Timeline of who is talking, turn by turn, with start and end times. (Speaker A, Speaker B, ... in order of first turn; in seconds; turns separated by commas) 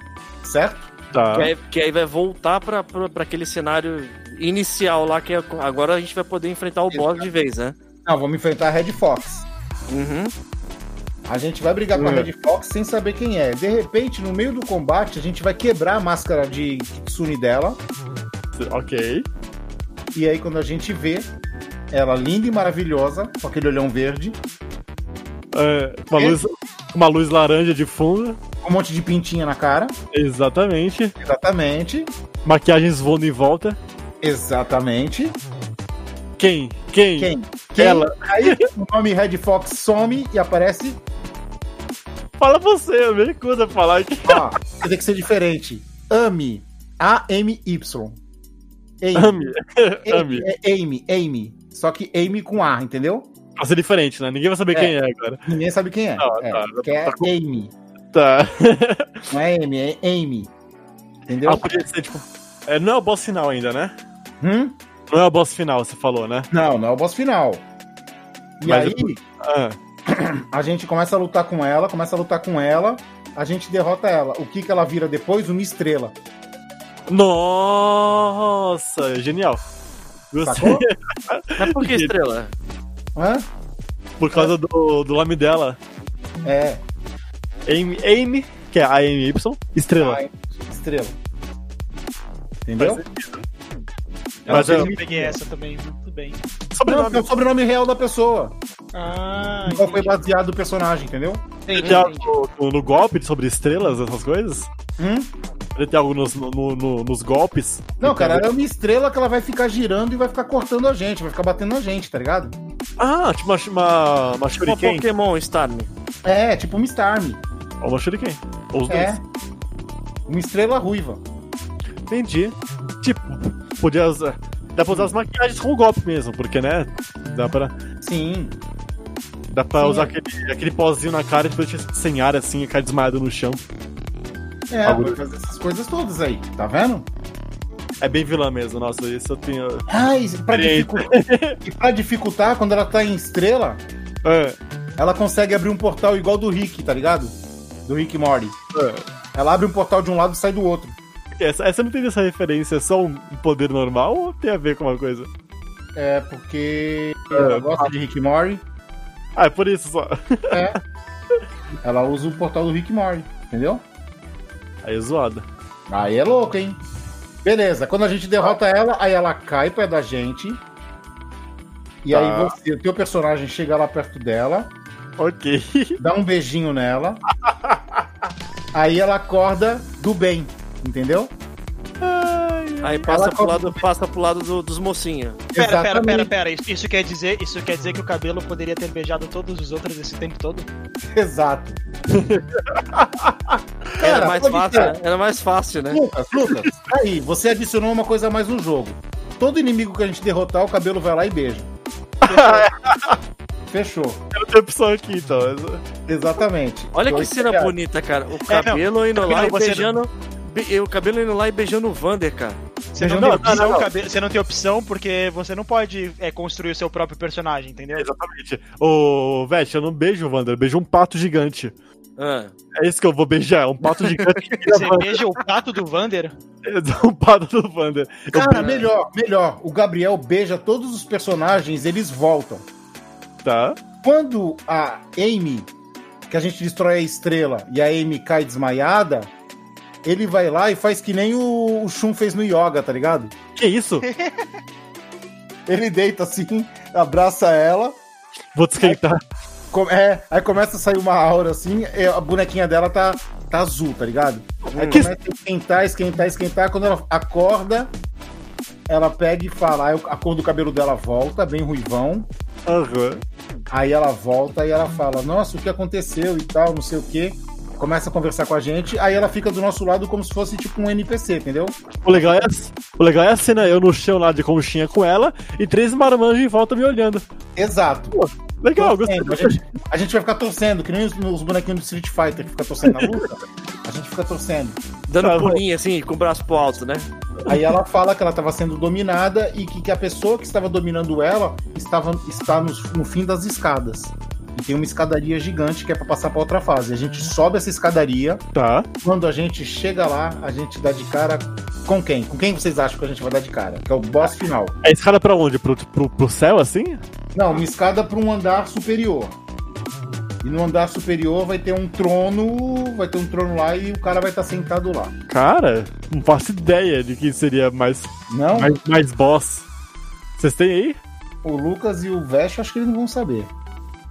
Speaker A: 0.4-0.9, Speaker B: 1.1-1.5, Speaker C: 1.3-7.8, Speaker A: 6.9-7.3, Speaker A: 8.1-9.5, Speaker C: 9.9-10.3, Speaker A: 11.3-17.8, Speaker B: 18.6-19.3, Speaker A: 20.1-21.3, Speaker A: 21.9-24.4, Speaker B: 25.5-28.4, Speaker A: 26.1-26.4, Speaker A: 28.6-29.9, Speaker B: 30.1-31.1, Speaker A: 31.2-32.1, Speaker B: 32.5-33.8, Speaker A: 34.2-35.4, Speaker B: 36.4-38.7, Speaker A: 37.2-41.0, Speaker B: 42.4-44.5, Speaker A: 44.2-48.2, Speaker A: 49.0-49.4, Speaker B: 49.1-50.5, Speaker A: 50.1-53.3, Speaker B: 53.6-55.4, Speaker A: 55.5-57.7, Speaker B: 56.2-57.3, Speaker B: 58.1-59.3, Speaker A: 59.3-60.5, Speaker A: 61.3-61.7, Speaker B: 61.5-63.9, Speaker A: 64.4-64.8, Speaker B: 65.1-66.5, Speaker A: 66.5-67.7, Speaker A: 68.6-69.2, Speaker B: 68.7-69.8, Speaker A: 70.1-76.2, Speaker B: 77.1-79.6, Speaker B: 80.3-82.1, Speaker A: 80.4-80.8, Speaker C: 81.6-82.5, Speaker A: 83.2-83.5, Speaker B: 84.2-85.8, Speaker A: 86.4-86.8, Speaker B: 87.7-90.2, Speaker A: 90.0-91.2, Speaker A: 92.7-93.0, Speaker B: 92.8-93.5, Speaker D: 94.5-96.4, Speaker A: 94.5-95.4, Speaker B: 94.5-94.9, Speaker B: 96.7-97.2, Speaker A: 96.9-98.6, Speaker D: 98.9-100.1, Speaker A: 99.7-101.5, Speaker D: 101.7-102.3, Speaker B: 101.8-104.7, Speaker A: 105.0-105.3, Speaker B: 105.8-108.5, Speaker A: 108.0-112.6, Speaker B: 113.0-115.0, Speaker C: 114.6-115.9, Speaker A: 116.2-117.4, Speaker B: 117.8-119.2, Speaker A: 118.9-119.2, Speaker A: 120.3-121.2, Speaker B: 122.1-127.7, Speaker A: 128.0-128.6, Speaker B: 129.5-133.6, Speaker A: 129.8-130.1, Speaker A: 134.7-137.1, Speaker B: 134.8-135.2, Speaker B: 138.0-139.9, Speaker A: 139.9-141.1, Speaker B: 140.5-141.6, Speaker A: 141.6-143.8, Speaker B: 144.2-144.6, Speaker A: 145.0-147.3, Speaker A: 147.9-148.6, Speaker B: 148.7-149.0, Speaker A: 149.3-151.0, Speaker B: 151.4-155.3, Speaker A: 155.9-158.6, Speaker B: 157.3-157.9, Speaker B: 159.4-160.7, Speaker A: 160.5-160.8, Speaker A: 161.8-163.8, Speaker B: 164.8-165.5, Speaker A: 165.9-166.8, Speaker A: 167.4-170.6, Speaker A: 172.1-174.7, Speaker B: 172.1-172.6, Speaker B: 175.2-176.0, Speaker A: 176.0-177.2, Speaker B: 177.4-178.1, Speaker A: 178.7-181.3, Speaker B: 182.0-183.1, Speaker C: 182.8-185.4, Speaker A: 183.1-183.8, Speaker A: 185.5-186.3, Speaker D: 185.6-190.7, Speaker A: 191.1-191.8, Speaker B: 192.1-193.4, Speaker A: 194.0-195.0, Speaker C: 194.0-196.0, Speaker A: 195.9-201.7, Speaker B: 202.2-203.2, Speaker D: 202.3-202.7, Speaker A: 203.7-204.2, Speaker B: 204.3-205.8, Speaker A: 206.1-207.7, Speaker C: 206.9-212.6, Speaker D: 208.5-209.9, Speaker D: 212.9-218.1, Speaker B: 213.0-213.9, Speaker A: 213.1-213.7, Speaker B: 217.9-221.7, Speaker C: 222.2-222.5, Speaker B: 222.8-225.2, Speaker D: 224.7-226.3, Speaker B: 226.6-228.9, Speaker A: 228.3-232.7, Speaker B: 233.4-233.8, Speaker A: 234.0-235.7, Speaker A: 236.3-239.3, Speaker A: 240.0-243.3, Speaker B: 243.6-244.1, Speaker D: 244.0-244.4, Speaker A: 245.7-248.0, Speaker B: 248.6-249.2, Speaker A: 249.7-257.9, Speaker C: 254.7-255.1, Speaker A: 258.9-262.3, Speaker B: 262.7-263.2, Speaker A: 263.7-271.8, Speaker B: 272.0-277.2, Speaker A: 277.6-278.2, Speaker B: 278.1-279.6, Speaker A: 278.8-284.8, Speaker B: 282.9-283.2, Speaker C: 285.1-287.1, Speaker B: 285.2-285.6, Speaker A: 287.5-298.4, Speaker B: 298.6-298.9, Speaker A: 299.0-304.8, Speaker B: 304.8-307.0, Speaker A: 307.3-309.4, Speaker A: 310.4-315.1, Speaker B: 315.3-319.7, Speaker A: 318.3-318.8, Speaker B: 320.4-321.0, Speaker A: 321.4-323.5